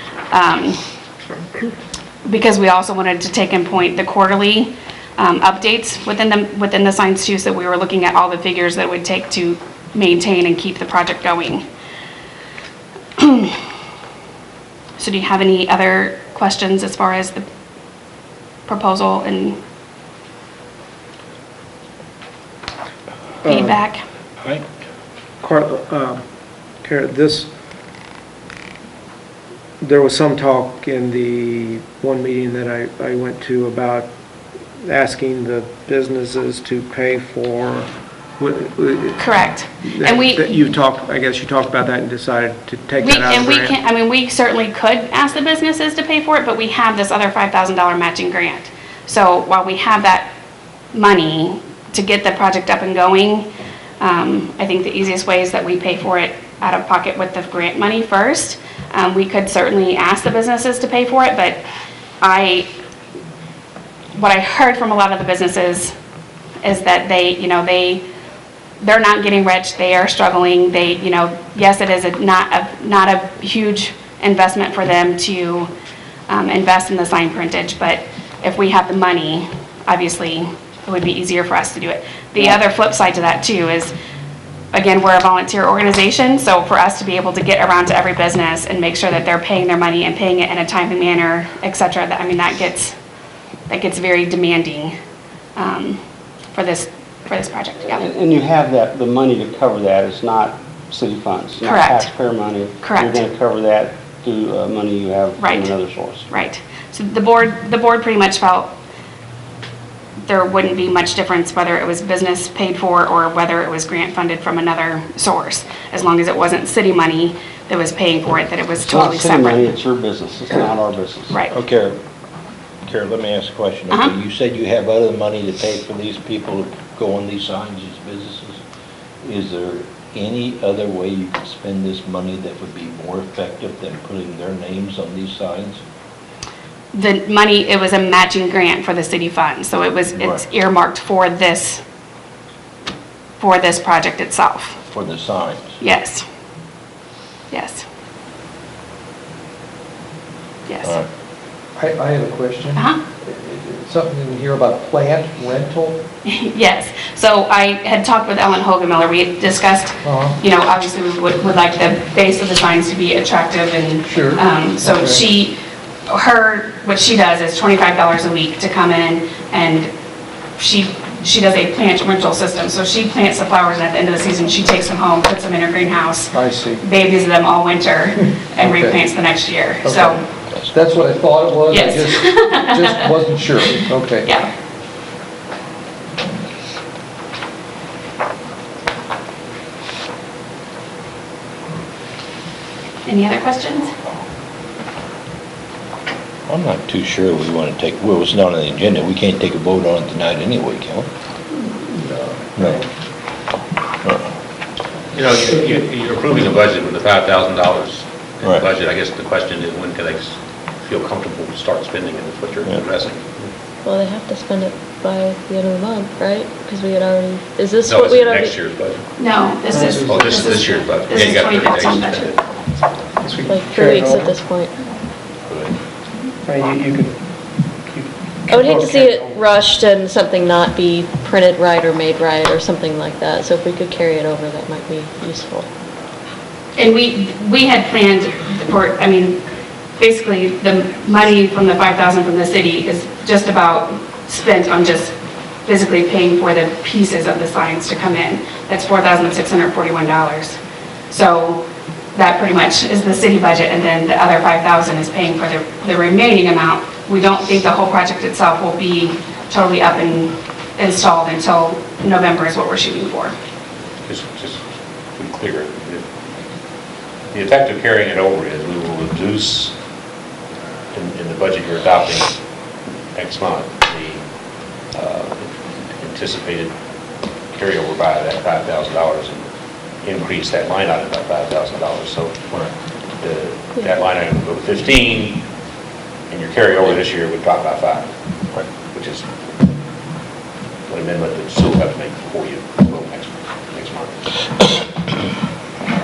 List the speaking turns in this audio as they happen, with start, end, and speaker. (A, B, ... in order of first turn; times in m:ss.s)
0:00.3-0:00.8 A
0:02.2-0:11.6 A
0:13.2-0:13.6 A
0:15.0-0:17.4 A
0:18.7-0:19.6 A
0:23.4-0:23.8 B
0:23.4-0:24.0 A
0:25.4-0:26.2 B
0:26.8-0:27.5 B
0:29.8-0:34.1 B
0:34.8-0:43.8 B
0:39.2-0:40.5 A
0:43.0-0:50.3 A
0:50.9-0:53.5 A
0:54.0-1:01.6 A
1:02.2-1:02.7 A
1:04.1-1:05.9 A
1:06.6-1:08.0 A
1:08.8-1:15.7 A
1:16.3-1:23.9 A
1:24.7-1:33.0 A
1:33.7-1:35.0 A
1:35.6-1:36.0 A
1:36.5-1:38.1 A
1:37.9-1:46.3 C
1:41.6-1:42.1 A
1:42.8-1:43.2 A
1:45.4-1:45.7 A
1:46.3-1:48.7 A
1:50.2-1:59.7 A
1:58.8-2:01.4 C
2:01.3-2:01.6 A
2:01.5-2:02.0 D
2:02.8-2:08.6 D
2:09.2-2:15.8 D
2:16.9-2:21.8 A
2:20.2-2:20.4 D
2:23.4-2:24.8 A
2:24.9-2:25.8 D
2:25.8-2:26.2 A
2:27.5-2:27.8 A
2:30.7-2:31.0 A
2:31.8-2:36.0 E
2:32.7-2:33.0 A
2:36.2-2:49.9 A
2:40.0-2:40.4 E
2:44.0-2:45.2 E
2:50.6-3:00.2 A
2:58.6-2:59.0 E
2:59.8-3:00.2 E
3:00.7-3:04.3 E
3:01.7-3:03.0 A
3:04.2-3:04.5 A
3:13.0-3:13.9 A
3:16.5-3:21.1 D
3:21.9-3:22.6 B
3:22.6-3:22.8 D
3:25.1-3:33.5 F
3:33.8-3:38.5 G
3:37.8-3:39.1 F
3:39.2-3:42.4 A
3:39.7-3:40.3 B
3:39.8-3:42.4 F
3:43.2-3:44.3 B
3:43.4-3:44.7 G
3:45.5-3:45.8 F
3:46.4-3:47.2 B
3:47.9-3:49.4 B
3:48.5-3:55.7 G
3:56.8-3:59.4 A
4:00.0-4:10.6 A
4:11.1-4:23.3 A
4:24.0-4:24.6 F
4:25.1-4:26.0 F
4:27.3-4:29.7 F
4:30.9-4:32.4 F
4:33.1-4:34.2 F
4:34.9-4:36.7 F
4:37.5-4:39.5 F
4:40.0-4:42.4 F
4:43.2-4:45.4 F
4:46.3-4:48.1 F
4:48.9-4:49.2 F
4:50.9-4:54.2 F